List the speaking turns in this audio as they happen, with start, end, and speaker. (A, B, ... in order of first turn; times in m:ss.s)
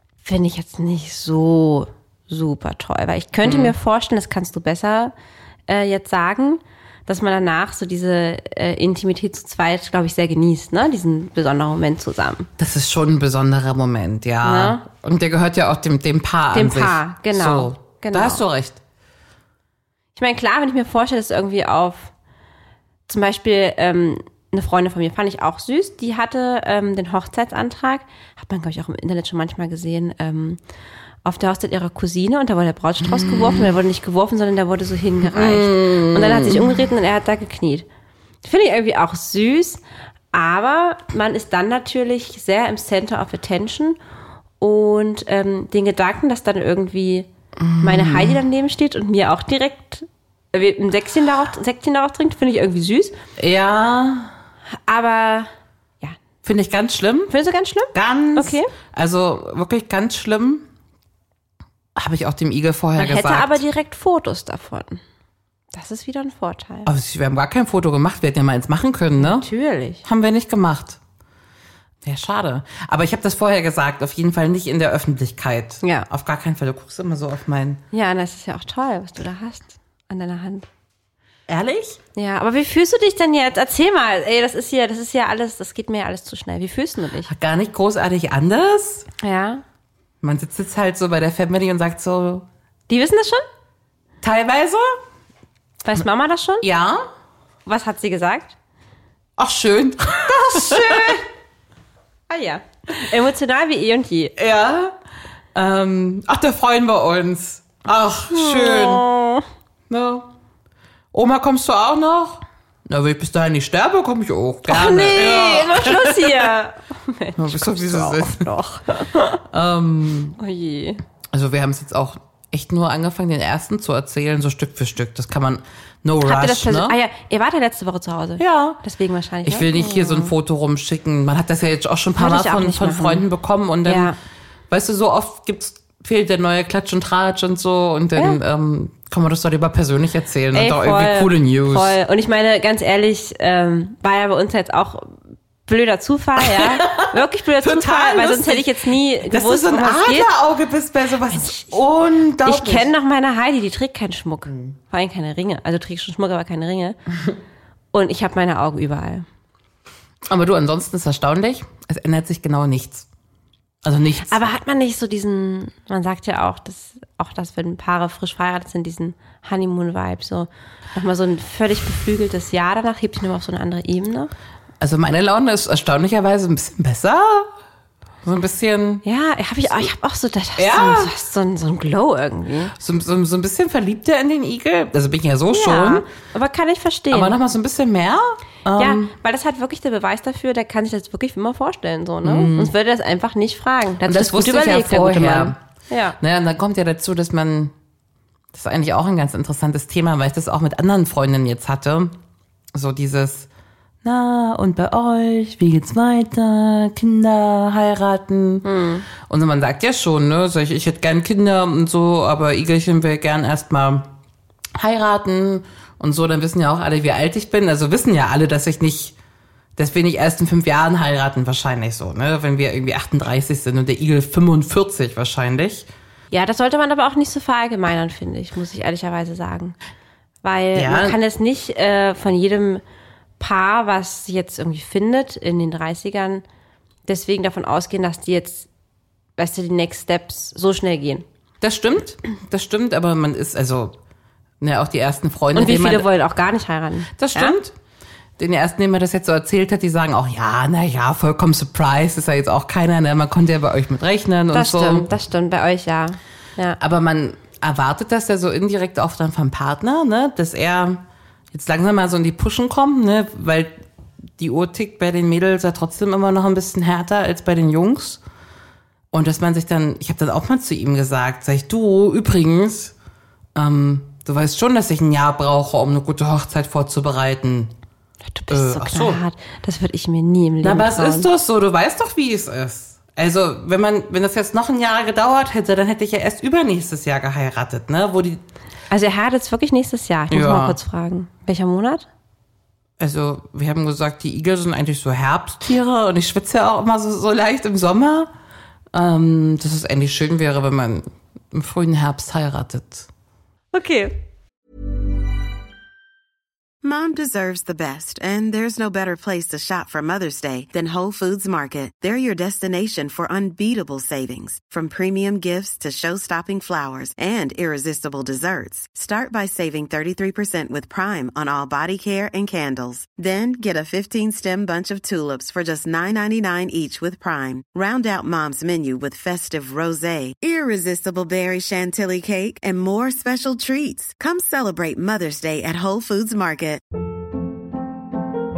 0:00.2-0:05.1 A
0:03.4-0:03.7 B
0:05.7-0:12.5 A
0:12.6-0:18.8 B
0:14.4-0:14.8 A
0:16.5-0:18.4 A
0:20.2-0:22.1 A
0:23.1-0:30.6 A
0:31.2-0:37.8 A
0:33.0-0:33.7 B
0:35.2-0:36.8 B
0:38.4-0:39.8 A
0:40.3-0:44.0 A
0:44.6-0:47.3 A
0:47.6-0:48.4 B
0:47.8-0:53.2 A
0:53.4-0:54.3 B
0:54.9-0:55.5 A
0:56.4-0:57.3 B
0:57.3-0:58.7 A
0:57.9-1:00.7 B
1:01.9-1:03.6 B
1:03.0-1:05.0 A
1:05.7-1:06.9 A
1:06.8-1:09.5 B
1:09.2-1:10.0 A
1:10.0-1:11.0 B
1:12.0-1:17.8 B
1:15.8-1:16.1 A
1:17.9-1:20.7 A
1:21.5-1:22.0 B
1:22.1-1:27.3 A
1:27.3-1:29.1 B
1:29.2-1:29.6 A
1:30.2-1:32.5 B
1:32.9-1:33.4 A
1:34.2-1:35.0 B
1:35.8-1:36.6 A
1:36.6-1:37.0 B
1:37.6-1:38.6 A
1:39.4-1:41.2 B
1:40.4-1:41.2 A
1:42.3-1:44.3 A
1:44.4-1:44.9 B
1:45.5-1:49.0 B
1:48.3-1:49.5 A
1:49.9-1:50.3 B
1:51.1-1:56.5 B
1:54.6-1:59.4 A
1:57.4-1:58.5 B
1:59.5-2:00.4 B
2:00.4-2:01.0 A
2:01.3-2:07.0 B
2:06.2-2:10.3 A
2:08.4-2:08.8 B
2:09.4-2:14.1 B
2:12.2-2:13.2 A
2:13.8-2:14.2 A
2:14.7-2:21.9 B
2:20.5-2:30.3 A
2:26.4-2:32.9 B
2:31.3-2:31.8 A
2:32.4-2:37.0 A
2:37.9-2:39.2 A
2:40.3-2:43.1 B
2:43.8-2:44.4 B
2:44.3-2:54.3 A
2:54.8-2:57.5 B
2:58.2-2:59.0 B
2:59.0-3:02.7 A
3:00.6-3:01.1 B
3:02.8-3:06.0 B
3:05.5-3:07.4 A
3:07.1-3:09.1 B
3:08.8-3:16.2 A
3:12.2-3:12.7 B
3:14.0-3:15.6 B
3:16.2-3:17.7 B
3:18.5-3:22.2 B
3:22.7-3:23.5 B
3:24.0-3:28.6 B
3:28.6-3:29.0 A
3:29.2-3:34.1 B
3:34.8-3:39.2 B
3:39.8-3:45.9 B
3:46.3-3:49.8 A
3:50.4-3:52.8 A
3:50.7-3:51.2 B
3:53.4-3:56.4 A
3:57.1-3:58.7 A
3:59.4-4:01.2 A
4:01.6-4:04.0 B
4:04.6-4:06.1 B
4:05.5-4:07.6 A
4:07.1-4:07.7 B
4:08.4-4:15.1 B
4:14.5-4:16.8 A
4:16.8-4:23.8 B
4:24.4-4:28.2 B
4:29.1-4:32.9 B
4:33.5-4:37.7 B
4:38.3-4:41.3 A
4:38.5-4:39.2 B
4:40.6-4:48.4 B
4:48.9-4:52.1 A
4:50.3-4:50.8 B
4:53.0-4:58.3 B
4:58.9-5:03.1 B
5:03.7-5:04.2 A
5:06.8-5:36.8 C